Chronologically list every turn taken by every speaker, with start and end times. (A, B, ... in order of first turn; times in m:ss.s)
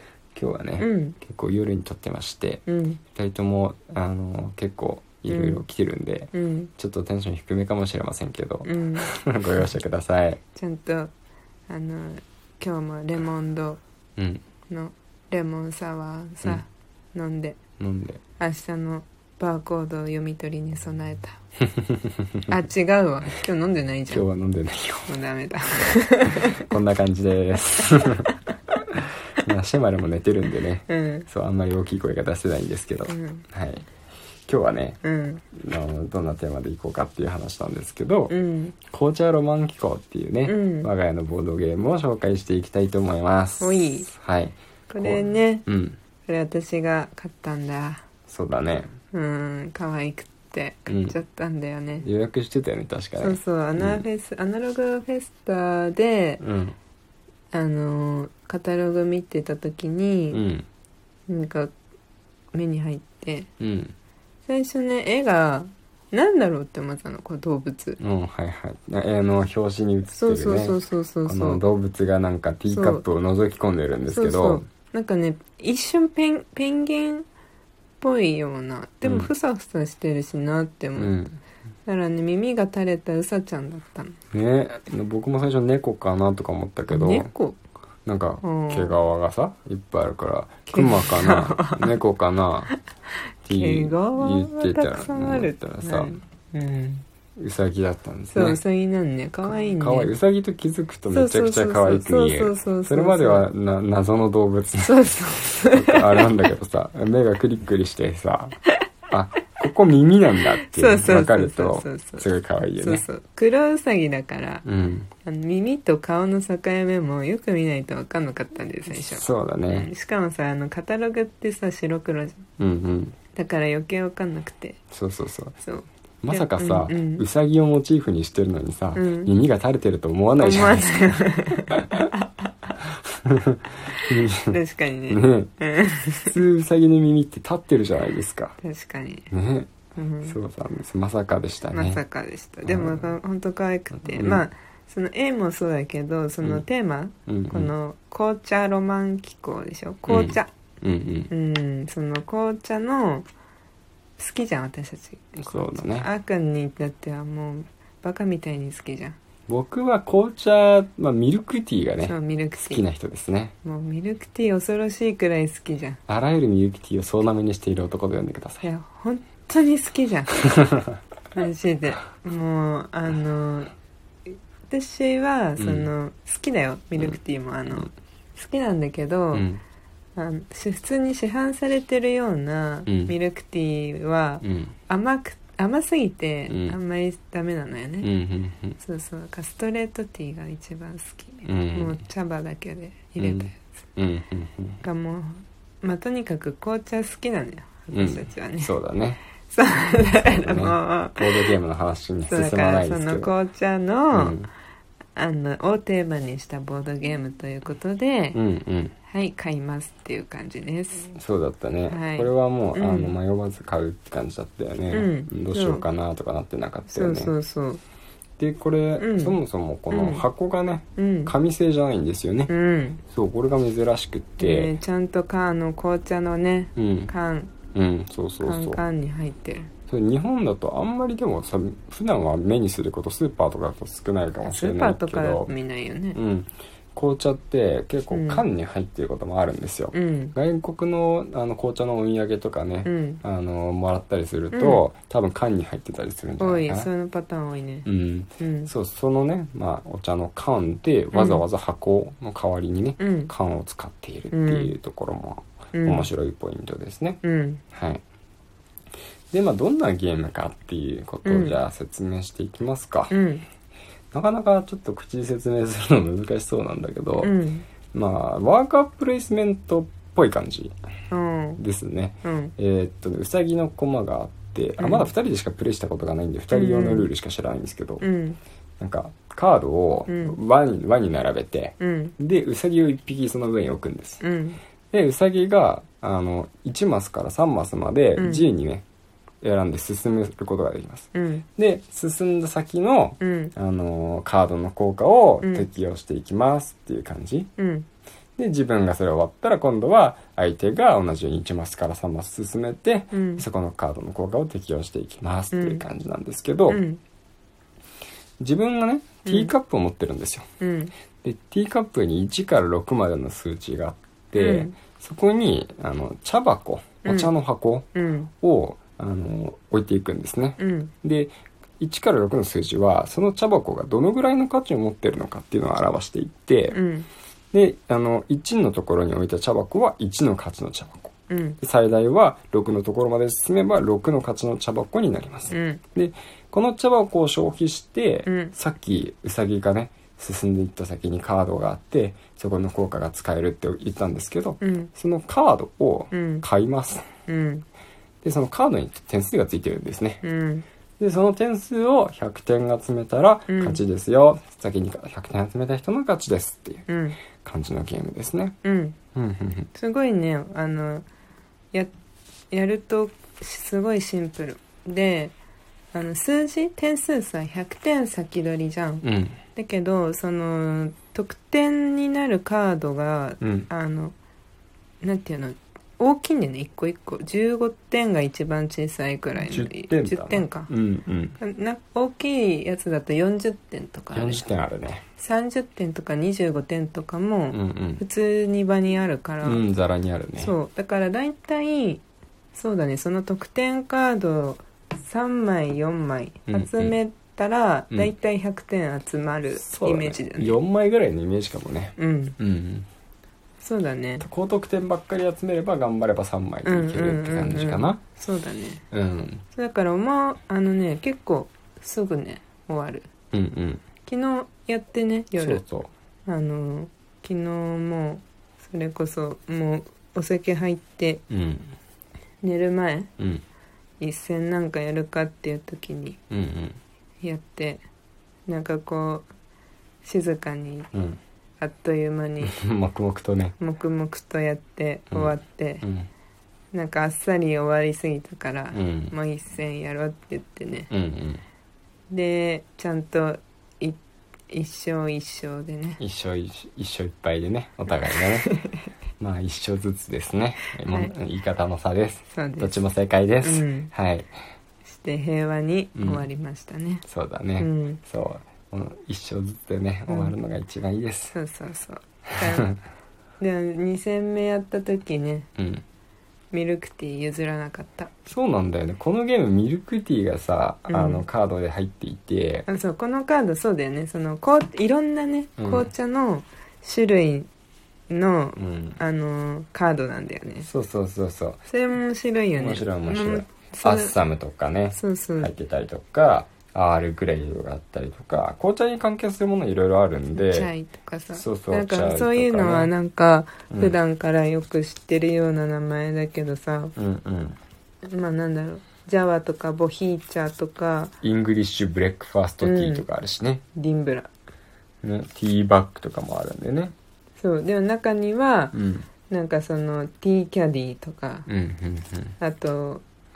0:00.4-0:02.6 A
0:00.8-0:01.2 B
0:02.7-0:03.0 B
0:03.2-0:10.4 A
0:05.3-0:05.6 B
0:06.3-0:06.7 B
0:08.6-0:09.1 B
0:10.6-0:11.1 B
0:11.7-0:13.8 B
0:14.2-0:14.4 A
0:14.7-0:17.6 B
0:17.8-0:18.2 A
0:18.4-0:21.4 B
0:21.7-0:22.6 A
0:22.5-0:24.3 B
0:24.1-0:25.2 A
0:25.1-0:26.6 B
0:26.5-0:28.3 A
0:28.9-0:33.9 A
0:30.9-0:31.3 B
0:33.1-0:33.4 B
0:34.5-0:35.0 A
0:35.0-0:35.4 B
0:35.5-0:38.3 A
0:38.3-0:38.8 B
0:38.9-0:46.0 A
0:40.5-0:40.9 B
0:43.6-0:44.1 B
0:44.9-0:45.6 B
0:46.3-0:48.0 B
0:48.3-0:48.9 A
0:49.1-0:52.0 B
0:50.9-0:51.2 A
0:52.0-0:54.1 A
0:53.2-0:56.4 B
0:56.4-0:56.8 A
0:57.5-1:00.4 B
1:00.3-1:00.7 A
1:01.3-1:01.7 B
1:02.5-1:03.5 B
1:03.6-1:03.9 A
1:04.5-1:08.0 B
1:08.0-1:14.6 A
1:10.1-1:11.6 B
1:12.7-1:13.0 B
1:14.1-1:17.3 B
1:18.0-1:21.2 B
1:19.0-1:19.3 A
1:21.0-1:21.4 A
1:21.9-1:24.2 B
1:24.3-1:27.3 A
1:26.9-1:27.6 B
1:28.1-1:32.7 A
1:28.4-1:29.0 B
1:30.7-1:32.0 B
1:33.5-1:36.1 A
1:33.5-1:37.0 B
1:37.4-1:38.6 A
1:38.3-1:40.1 B
1:39.4-1:48.6 A
1:41.1-1:43.5 B
1:44.8-1:46.3 B
1:49.1-1:53.0 A
1:50.6-1:54.6 B
1:54.6-1:55.1 A
1:55.2-2:02.5 B
1:58.9-1:59.9 A
2:02.6-2:03.2 A
2:03.4-2:04.8 B
2:04.9-2:05.6 A
2:05.6-2:07.2 B
2:06.2-2:11.0 A
2:09.0-2:09.3 B
2:10.4-2:12.8 B
2:13.1-2:14.6 A
2:13.9-2:16.4 B
2:15.1-2:15.5 A
2:16.1-2:18.6 A
2:18.6-2:19.3 B
2:19.3-2:22.0 A
2:20.0-2:20.4 B
2:21.7-2:30.5 B
2:22.6-2:23.2 A
2:24.0-2:24.4 A
2:27.3-2:27.7 A
2:30.1-2:31.3 A
2:31.3-2:33.3 B
2:34.2-2:39.2 B
2:35.4-2:36.1 A
2:39.5-2:43.5 A
2:42.0-2:42.8 B
2:43.6-2:46.0 B
2:46.1-2:48.6 A
2:48.6-2:50.5 B
2:50.5-2:50.8 A
2:51.3-2:53.7 B
2:54.3-2:59.5 B
2:55.6-2:55.9 A
2:59.3-2:59.6 A
3:00.2-3:08.1 B
3:02.9-3:03.1 A
3:04.4-3:04.8 A
3:06.5-3:06.8 A
3:08.0-3:08.8 A
3:08.8-3:13.6 B
3:11.4-3:12.0 A
3:13.2-3:14.8 A
3:14.8-3:18.7 B
3:17.9-3:19.2 A
3:19.5-3:21.6 B
3:20.2-3:23.3 A
3:22.3-3:24.4 B
3:24.1-3:24.5 A
3:25.2-3:28.4 B
3:28.3-3:29.0 A
3:29.1-3:31.1 B
3:31.2-3:37.3 A
3:31.9-3:33.2 B
3:34.9-3:35.8 B
3:36.9-3:37.8 B
3:38.4-3:42.5 A
3:39.0-3:39.4 B
3:39.9-3:40.2 B
3:41.0-3:41.3 B
3:42.5-3:43.0 B
3:43.1-3:44.8 A
3:44.4-3:47.6 B
3:46.8-3:47.1 A
3:47.7-3:48.8 A
3:48.4-3:49.7 B
3:49.9-3:55.5 A
3:54.4-3:56.2 B
3:56.1-4:06.9 A
3:58.1-3:58.4 B
3:59.9-4:00.3 B
4:02.9-4:03.2 B
4:04.5-4:04.8 B
4:06.4-4:07.9 B
4:07.8-4:17.2 A
4:08.4-4:08.7 B
4:11.1-4:11.4 B
4:13.0-4:13.3 B
4:14.3-4:14.7 B
4:15.7-4:16.1 B
4:17.2-4:17.6 B
4:17.7-4:18.0 A
4:19.3-4:23.2 A
4:21.2-4:21.6 B
4:23.1-4:23.4 B
4:24.1-4:27.4 A
4:27.2-4:27.7 B
4:27.9-4:30.8 A
4:31.1-4:31.6 B
4:31.6-4:38.0 A
4:32.2-4:32.5 B
4:34.8-4:35.1 B
4:36.5-4:37.1 B
4:38.0-4:38.4 B
4:38.8-4:44.2 A
4:40.1-4:40.4 B
4:41.8-4:42.2 B
4:44.2-4:44.6 B
4:44.9-4:48.8 A
4:48.2-4:48.5 B
4:49.4-4:57.5 A
4:51.2-4:51.4 B
4:53.2-4:53.5 B
4:55.4-4:55.7 B
4:57.6-4:57.9 B
4:58.4-5:06.8 A
5:03.1-5:03.4 B
5:05.5-5:05.8 B
5:06.7-5:07.0 B
5:08.4-5:10.5 A
5:09.2-5:09.5 B
5:10.6-5:10.9 B
5:11.2-5:17.9 A
5:14.4-5:14.7 B
5:17.0-5:17.3 B
5:18.0-5:18.3 B
5:18.4-5:26.8 A
5:20.6-5:20.9 B
5:26.7-5:27.1 B
5:27.5-5:47.1 A
5:31.3-5:31.6 B
5:35.5-5:35.8 B
5:38.3-5:38.5 B
5:44.6-5:44.9 B
5:46.1-5:46.4 B
5:47.3-5:47.6 B
5:48.2-5:50.2 A
5:50.2-5:50.6 B
5:51.0-5:56.9 A
5:53.5-5:53.8 B
5:56.9-5:57.2 B
5:57.4-5:58.6 A
5:58.6-5:59.0 B
5:59.2-5:59.7 A
5:59.8-6:01.1 B
6:02.5-6:05.3 B
6:05.9-6:14.1 B
6:09.0-6:09.4 A
6:13.4-6:13.7 A
6:15.0-6:20.7 B
6:19.4-6:21.4 A
6:21.4-6:24.4 B
6:24.1-6:25.0 A
6:25.2-6:29.6 B
6:27.5-6:28.0 A
6:29.4-6:30.5 A
6:30.4-6:32.0 B
6:32.5-6:40.6 B
6:36.5-6:37.0 A
6:39.6-6:42.9 A
6:42.0-6:42.4 B
6:43.6-6:44.2 B
6:44.2-6:48.0 A
6:46.6-6:48.8 B
6:48.9-6:49.4 A
6:49.5-6:53.1 B
6:53.3-6:53.8 A
6:54.1-6:55.6 B
6:55.4-6:55.9 A
6:56.3-7:01.2 B
7:01.3-7:01.7 A
7:02.4-7:03.1 B
7:03.2-7:03.4 A
7:04.0-7:06.2 B
7:06.3-7:06.8 A
7:07.2-7:07.8 B
7:08.5-7:09.3 B
7:10.0-7:10.9 B
7:10.9-7:11.2 A
7:11.6-7:12.6 B
7:12.4-7:13.6 A
7:13.6-7:15.8 B
7:15.1-7:16.1 A
7:16.7-7:20.9 B
7:18.7-7:19.1 A
7:20.9-7:21.4 A
7:22.1-7:24.0 B
7:24.5-7:26.0 B
7:26.0-7:28.5 A
7:28.2-7:28.8 B
7:29.2-7:34.3 A
7:30.9-7:31.1 B
7:32.3-7:32.8 B
7:33.4-7:33.9 B
7:34.9-7:37.0 B
7:36.0-7:36.3 A
7:37.1-7:41.4 A
7:37.6-7:38.0 B
7:40.1-7:40.4 B
7:41.3-7:42.8 B
7:43.4-7:45.5 B
7:45.6-7:45.8 A
7:46.5-7:48.1 B
7:48.3-7:52.7 A
7:50.9-7:51.3 B
7:52.7-7:57.5 B
7:55.6-7:55.9 A
7:58.1-8:00.7 B
7:58.6-7:59.0 A
8:00.6-8:01.6 A
8:01.7-8:04.1 B
8:02.5-8:10.7 A
8:05.0-8:05.5 B
8:10.3-8:16.9 B
8:11.3-8:12.9 A
8:13.7-8:14.0 A
8:17.0-8:17.6 A
8:18.0-8:21.1 B
8:21.2-8:23.6 A
8:22.6-8:23.1 B
8:23.8-8:24.3 B
8:25.0-8:26.9 A
8:27.4-8:28.8 B
8:28.7-8:29.1 A
8:29.3-8:31.5 B
8:31.5-8:32.4 A
8:32.4-8:33.0 B